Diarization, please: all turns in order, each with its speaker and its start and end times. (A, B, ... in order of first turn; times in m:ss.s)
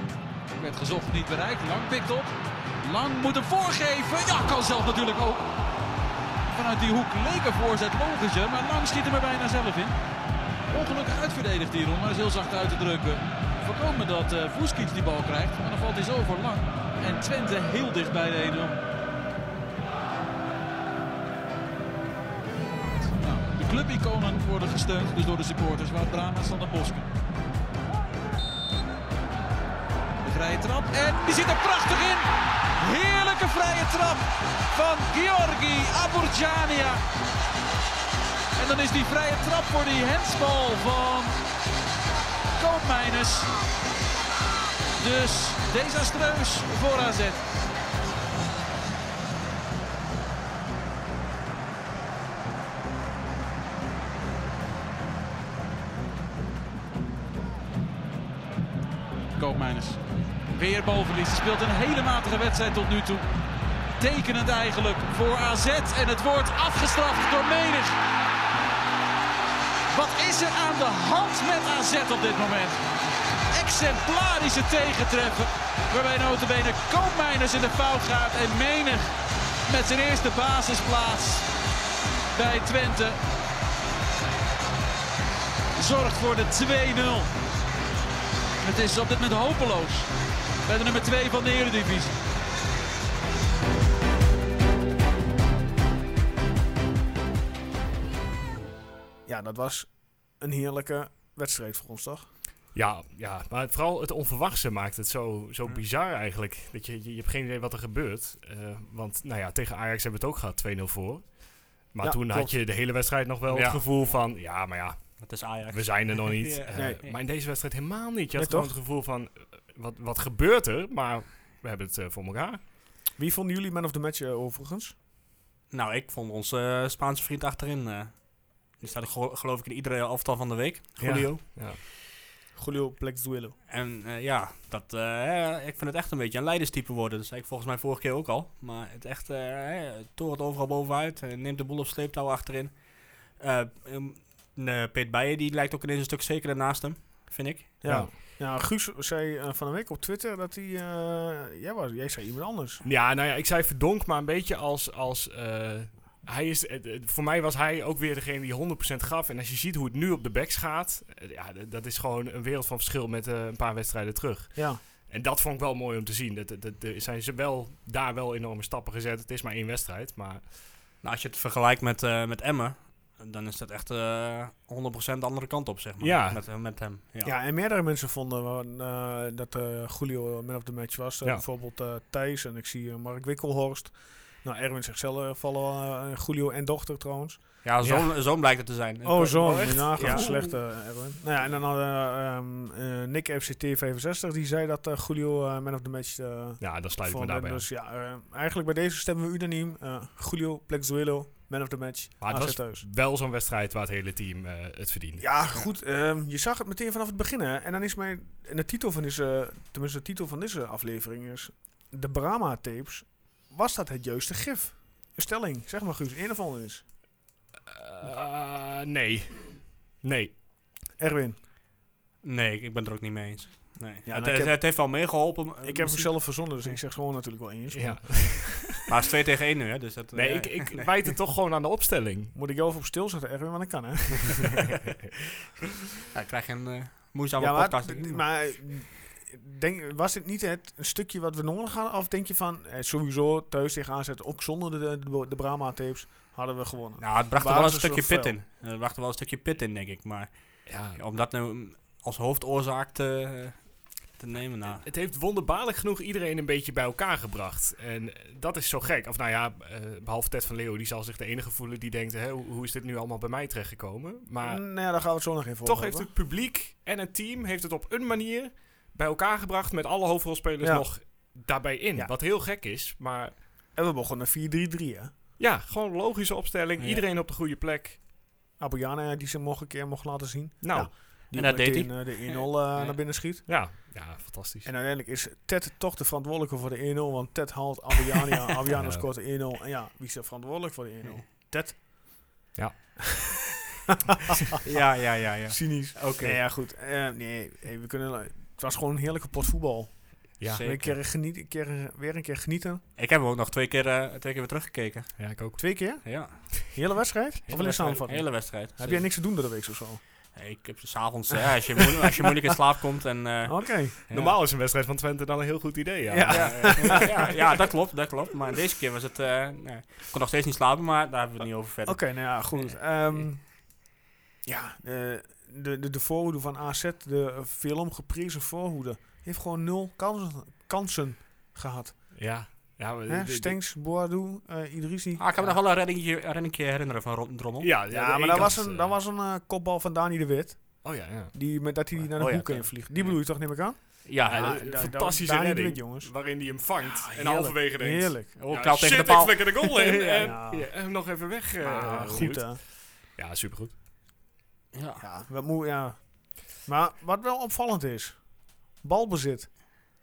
0:00.5-0:05.5 A
0:06.5-0:10.0 A
0:10.7-0:18.8 A
0:22.9-0:27.1 A
0:30.2-0:37.0 A
0:38.6-0:41.3 A
0:42.6-0:43.5 A
0:45.0-0:47.4 A
0:59.3-1:00.0 A
1:00.5-1:03.2 A
1:04.0-1:08.0 A
1:09.9-1:12.8 A
1:13.5-1:19.1 A
1:19.7-1:21.5 A
1:22.3-1:23.2 A
1:25.8-1:27.3 A
1:28.6-1:30.1 A
1:30.6-1:32.1 A
1:39.3-1:42.3 B
1:42.7-2:02.6 C
1:52.0-1:52.5 B
1:53.5-1:53.8 D
1:55.2-1:57.2 D
1:56.8-1:57.0 B
1:58.4-1:58.7 B
2:03.2-2:05.0 B
2:05.7-2:11.4 D
2:11.0-2:11.8 C
2:12.6-2:13.6 B
2:13.7-2:27.8 D
2:27.8-2:32.8 B
2:27.8-2:28.1 C
2:32.8-2:50.5 C
2:44.6-2:44.8 B
2:51.0-2:57.3 D
2:56.0-2:56.4 C
2:57.2-3:07.4 B
3:07.6-3:10.4 D
3:07.8-3:08.1 C
3:09.0-3:22.8 B
3:09.4-3:10.4 C
3:16.6-3:17.7 C
3:22.2-3:25.2 C
3:25.2-3:36.8 B
3:37.6-3:40.4 C
3:41.0-3:41.4 B
3:42.2-3:46.8 D
3:44.1-3:44.9 B
3:45.6-3:48.7 B
3:47.7-3:48.8 C
3:48.9-3:51.1 D
3:50.1-3:52.3 C
3:52.3-3:54.6 B
3:56.1-3:58.2 D
3:57.4-4:08.3 B
4:07.0-4:10.3 D
4:10.7-4:11.0 C
4:10.9-4:13.6 D
4:14.2-4:14.9 D
4:14.8-4:24.7 C
4:24.4-4:26.1 B
4:25.6-4:33.4 C
4:30.6-4:31.3 B
4:33.8-4:35.1 B
4:35.4-4:38.0 C
4:38.6-4:43.5 B
4:40.6-4:40.9 C
4:41.3-4:42.9 D
4:42.8-4:44.7 C
4:44.6-4:52.3 B
4:48.7-4:49.1 C
4:52.6-4:53.0 C
4:53.9-5:02.8 B
4:54.6-4:56.4 D
5:00.4-5:00.7 C
5:00.4-5:01.0 D
5:03.0-5:05.2 D
5:05.2-5:06.0 C
5:05.6-5:10.0 B
5:06.0-5:06.6 D
5:07.5-5:09.1 D
5:10.3-5:14.4 D
5:13.5-5:14.0 B
5:14.1-5:17.6 C
5:16.1-5:17.3 B
5:16.3-5:23.2 D
5:21.9-5:23.9 B
5:24.4-5:32.1 B
5:32.1-5:33.6 C
5:33.1-5:35.5 B
5:35.2-5:37.7 D
5:37.6-5:39.0 C
5:37.9-5:48.3 B
5:40.8-5:41.4 C
5:42.2-5:43.2 D
5:44.0-5:44.6 D
5:44.2-5:53.8 C
5:48.4-5:50.4 D
5:50.2-5:51.0 B
5:51.6-5:52.6 B
5:54.7-5:55.0 D
5:55.0-5:59.8 B